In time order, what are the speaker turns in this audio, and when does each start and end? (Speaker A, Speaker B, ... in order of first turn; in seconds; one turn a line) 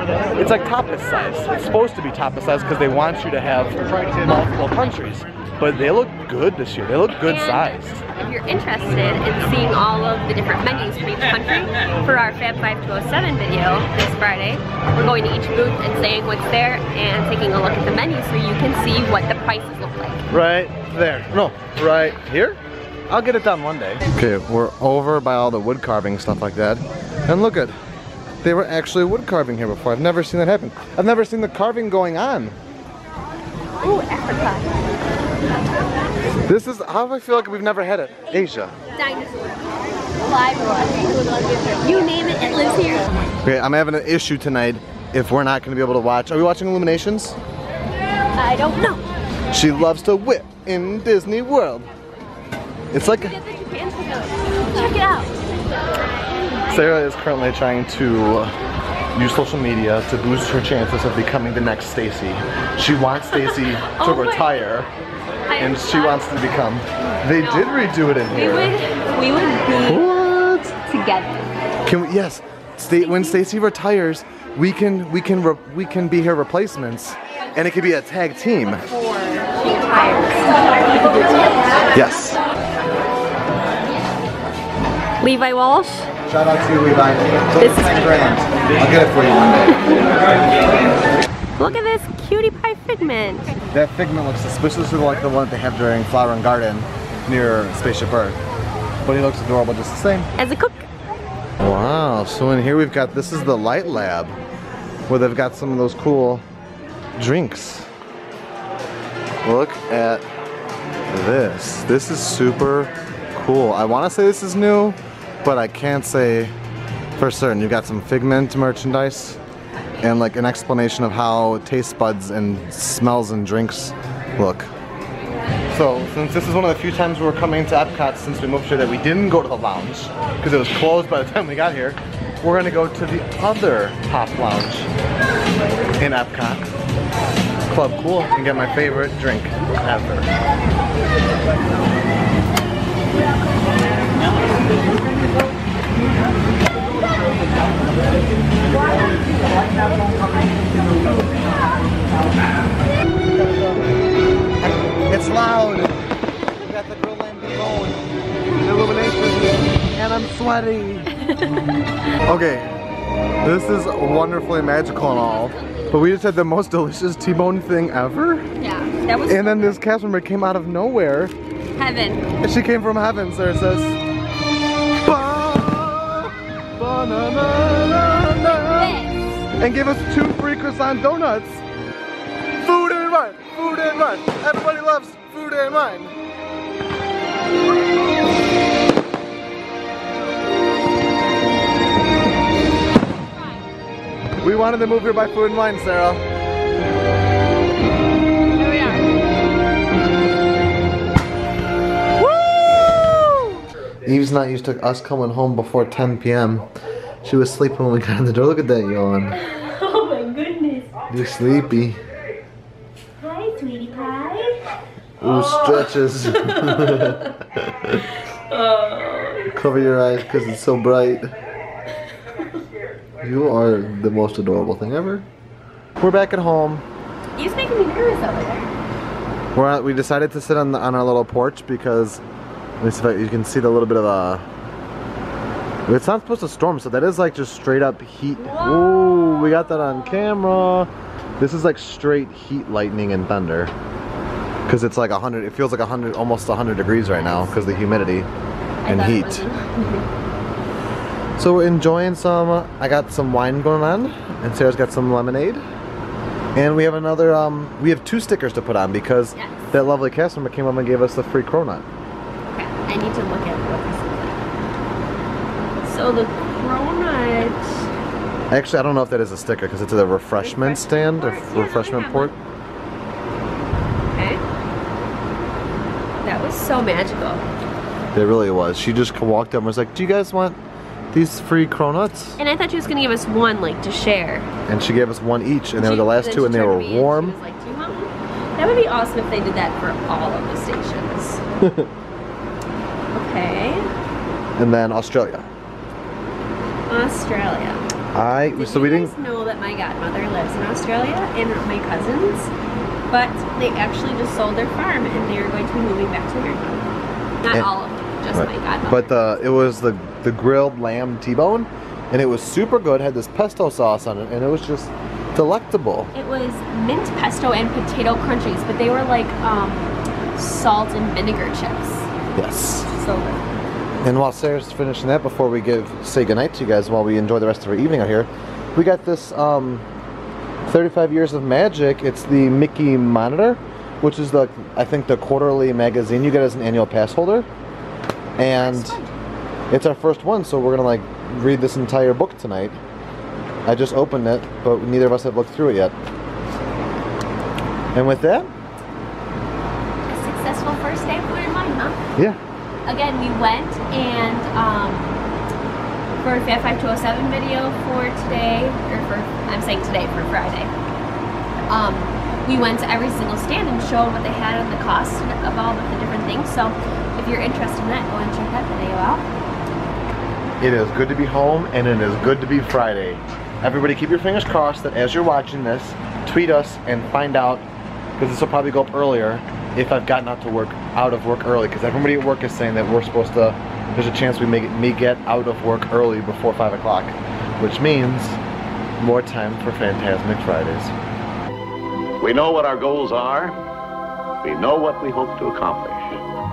Speaker A: 0.4-8.0
Speaker B: 7.2-20.2
Speaker A: 20.3-27.7
Speaker A: 28.4-32.6
Speaker B: 33.8-34.7
Speaker A: 36.5-38.7
Speaker B: 38.3-39.6
Speaker B: 40.2-43.2
Speaker A: 43.4-47.4
Speaker B: 48.4-49.0
Speaker A: 49.5-51.9
Speaker A: 52.9-53.4
Speaker B: 52.9-55.4
Speaker B: 56.5-56.9
Speaker A: 56.7-58.5
Speaker A: 59.1-64.9
Speaker B: 63.3-64.7
Speaker B: 65.5-66.4
Speaker A: 65.6-68.7
Speaker B: 67.1-70.1
Speaker A: 69.9-70.8
Speaker B: 70.8-71.4
Speaker A: 71.9-78.9
Speaker B: 73.0-73.4
Speaker B: 78.8-81.6
Speaker A: 81.9-82.4
Speaker B: 85.2-86.1
Speaker A: 86.3-89.8
Speaker B: 87.6-88.2
Speaker B: 91.6-93.6
Speaker A: 93.7-98.4
Speaker A: 99.0-100.3
Speaker B: 100.4-100.9
Speaker A: 101.6-104.4
Speaker A: 105.1-106.4
Speaker A: 107.2-107.9
Speaker A: 109.5-110.2
Speaker A: 111.1-116.5
Speaker A: 117.2-119.4
Speaker A: 120.0-124.7
Speaker A: 125.7-134.9
Speaker A: 136.0-136.7
Speaker A: 137.7-140.3
Speaker A: 154.6-156.0
Speaker A: 156.6-158.0
Speaker A: 158.6-161.2
Speaker A: 162.3-162.7
Speaker A: 163.4-168.5
Speaker B: 168.6-169.8
Speaker A: 169.3-171.3
Speaker B: 171.8-172.3
Speaker A: 172.4-174.0
Speaker A: 175.0-179.0
Speaker B: 178.5-179.5
Speaker A: 179.6-181.6
Speaker A: 182.6-186.1
Speaker A: 194.4-196.2
Speaker B: 198.6-199.1
Speaker B: 202.5-203.5
Speaker A: 204.1-206.7
Speaker A: 207.2-209.4
Speaker B: 209.3-210.9
Speaker A: 211.1-212.0
Speaker B: 213.2-217.4
Speaker A: 215.2-218.0
Speaker B: 217.9-219.6
Speaker A: 219.5-221.3
Speaker A: 223.2-225.3
Speaker A: 226.0-226.8
Speaker B: 227.4-228.7
Speaker A: 229.6-232.2
Speaker A: 232.8-234.4
Speaker A: 235.9-243.7
Speaker B: 238.4-239.4
Speaker A: 244.7-248.3
Speaker B: 247.3-247.7
Speaker B: 248.8-250.1
Speaker A: 248.9-249.5
Speaker A: 251.4-255.6
Speaker A: 256.6-261.9
Speaker B: 259.4-259.7
Speaker B: 262.5-264.5
Speaker B: 265.8-267.8
Speaker A: 268.5-272.3
Speaker B: 270.4-272.3
Speaker B: 274.1-274.4
Speaker B: 276.2-277.4
Speaker A: 278.1-280.6
Speaker A: 281.1-282.4
Speaker B: 282.4-284.5
Speaker A: 284.7-287.4
Speaker B: 285.8-291.4
Speaker A: 291.6-291.9
Speaker B: 293.1-293.9
Speaker A: 294.6-295.5
Speaker B: 296.9-297.9
Speaker A: 298.1-299.1
Speaker B: 298.5-302.5
Speaker B: 303.1-306.9
Speaker B: 307.4-309.4
Speaker A: 308.4-316.1
Speaker B: 316.1-322.1
Speaker A: 322.4-322.9
Speaker B: 322.9-323.4
Speaker A: 324.0-329.9
Speaker A: 330.7-337.5
Speaker A: 338.4-339.0
Speaker B: 338.4-339.1
Speaker A: 339.7-342.8
Speaker A: 343.7-345.9
Speaker A: 347.9-348.5
Speaker B: 350.1-352.0
Speaker B: 352.9-355.1
Speaker B: 356.2-360.7
Speaker B: 361.7-369.3
Speaker A: 370.6-377.6
Speaker A: 378.2-388.4
Speaker A: 389.0-390.9
Speaker C: 392.2-393.6
Speaker C: 394.4-396.3